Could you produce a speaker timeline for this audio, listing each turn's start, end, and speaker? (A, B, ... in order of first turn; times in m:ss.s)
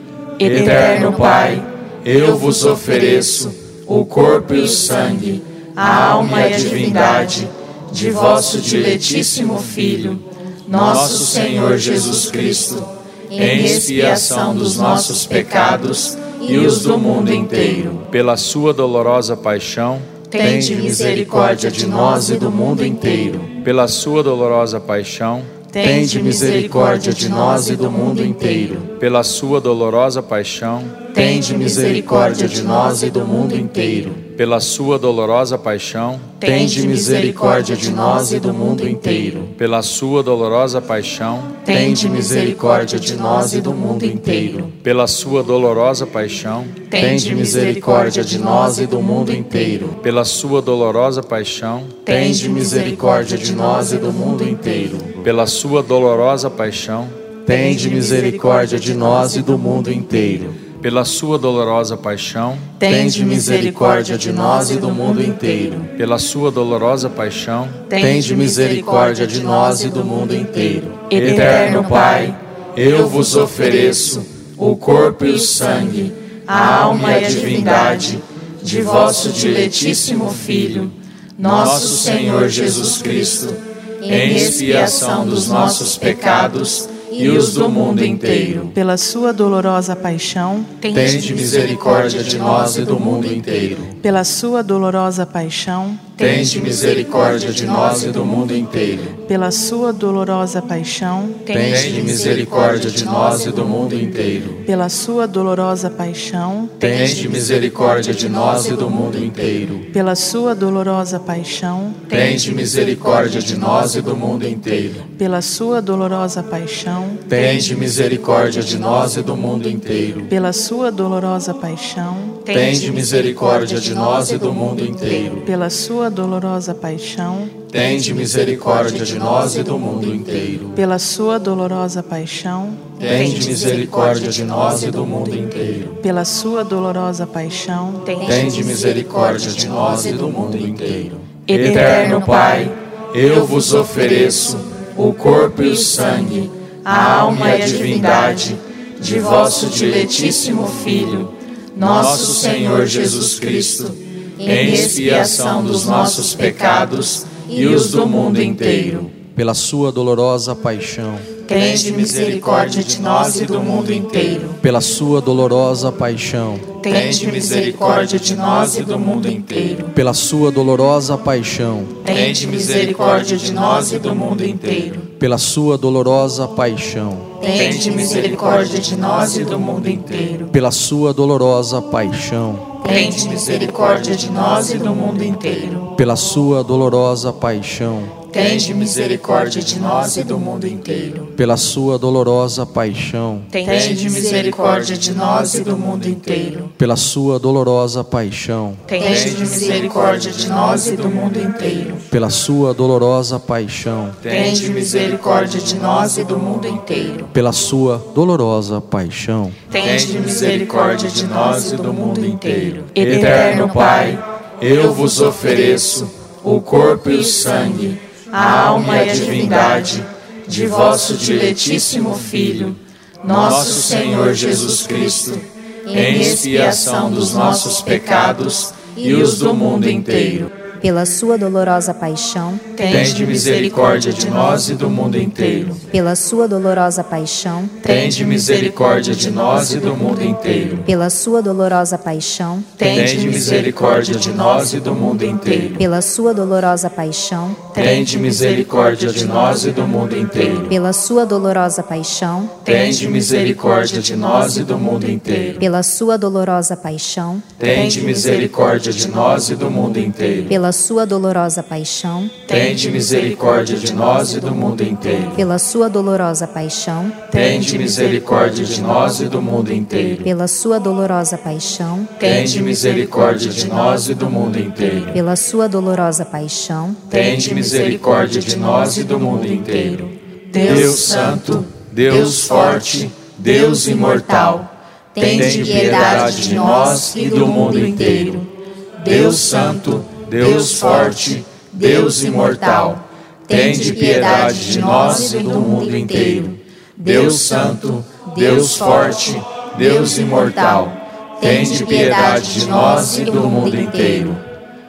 0:00.4-0:18.1 A
0:00.4-0:01.3 B
0:13.4-0:14.5 B
0:18.1-0:20.2 B
0:20.2-0:23.6 A
0:20.4-0:20.9 C
0:23.6-0:25.5 B
0:25.7-0:29.0 A
0:26.0-0:26.3 C
0:29.0-0:31.0 B
0:31.0-0:34.3 A
0:34.3-0:36.3 B
0:36.3-0:39.6 A
0:39.6-0:41.6 B
0:41.5-0:44.8 A
0:44.8-0:46.8 B
0:46.8-0:50.0 A
0:47.0-0:47.7 C
0:50.0-0:52.0 B
0:52.0-0:55.2 A
0:55.2-0:57.2 B
0:57.4-1:00.5 A
0:57.5-1:00.5 C
1:00.7-1:02.7 B
1:02.8-1:05.9 A
1:02.9-1:03.4 C
1:05.9-1:07.8 B
1:07.9-1:28.8 A
1:08.0-1:09.5 C
1:11.1-1:11.8 B
1:24.1-1:25.2 B
1:28.7-1:30.7 D
1:30.7-1:34.0 A
1:30.9-1:32.7 B
1:34.0-1:36.0 D
1:36.0-1:39.2 A
1:36.2-1:36.9 B
1:39.2-1:41.4 D
1:41.4-1:44.6 A
1:41.5-1:42.0 C
1:41.6-1:42.7 B
1:44.6-1:46.8 D
1:46.7-1:49.9 A
1:47.0-1:47.2 B
1:49.9-1:52.0 D
1:52.0-1:55.1 A
1:55.1-1:57.2 D
1:57.2-2:00.3 A
2:00.3-2:02.4 D
2:02.4-2:05.5 A
2:02.5-2:03.3 B
2:05.4-2:07.6 D
2:07.6-2:10.8 A
2:10.7-2:12.9 D
2:13.0-2:16.0 A
2:13.0-2:13.9 E
2:13.1-2:13.6 B
2:16.0-2:18.1 D
2:18.0-2:39.2 A
2:18.2-2:20.3 E
2:18.3-2:18.6 B
2:21.5-2:22.2 B
2:31.9-2:32.3 B
2:34.4-2:35.2 E
2:39.3-2:41.3 C
2:41.4-2:44.6 A
2:44.6-2:46.7 C
2:46.8-2:49.9 A
2:49.9-2:52.0 C
2:52.0-2:55.1 A
2:55.2-2:57.3 C
2:57.4-3:00.5 A
2:57.6-2:58.4 E
3:00.5-3:02.8 C
3:02.8-3:05.9 A
3:05.9-3:08.1 C
3:08.3-3:11.3 A
3:11.4-3:13.5 C
3:13.5-3:16.7 A
3:16.8-3:18.8 C
3:18.9-3:22.0 A
3:22.1-3:24.2 C
3:24.2-3:27.3 A
3:27.3-3:29.6 C
3:29.7-3:50.7 A
3:33.2-3:33.6 E
3:43.3-3:44.3 B
3:45.9-3:47.0 B
3:50.8-3:52.8 E
3:52.7-3:55.9 A
3:52.8-3:54.0 B
3:55.9-3:57.8 E
3:57.8-4:00.9 A
4:00.8-4:02.8 E
4:02.7-4:05.9 A
4:02.8-4:03.8 B
4:05.8-4:07.7 E
4:07.6-4:10.8 A
4:10.7-4:12.6 E
4:12.5-4:15.6 A
4:15.6-4:17.4 E
4:17.6-4:20.6 A
4:20.5-4:22.4 E
4:22.3-4:25.5 A
4:25.3-4:27.2 E
4:27.2-4:30.3 A
4:30.2-4:32.1 E
4:32.1-4:35.2 A
4:35.1-4:37.0 E
4:37.0-5:04.4 A
4:40.6-4:42.9 B
4:45.2-4:48.2 E
4:45.2-4:46.9 B
4:50.2-4:51.3 B
4:51.9-4:52.8 E
4:53.5-4:56.4 E
4:53.5-4:54.6 B
4:57.3-4:57.8 B
4:58.4-4:59.1 E
4:59.8-5:00.9 E
5:01.4-5:04.2 E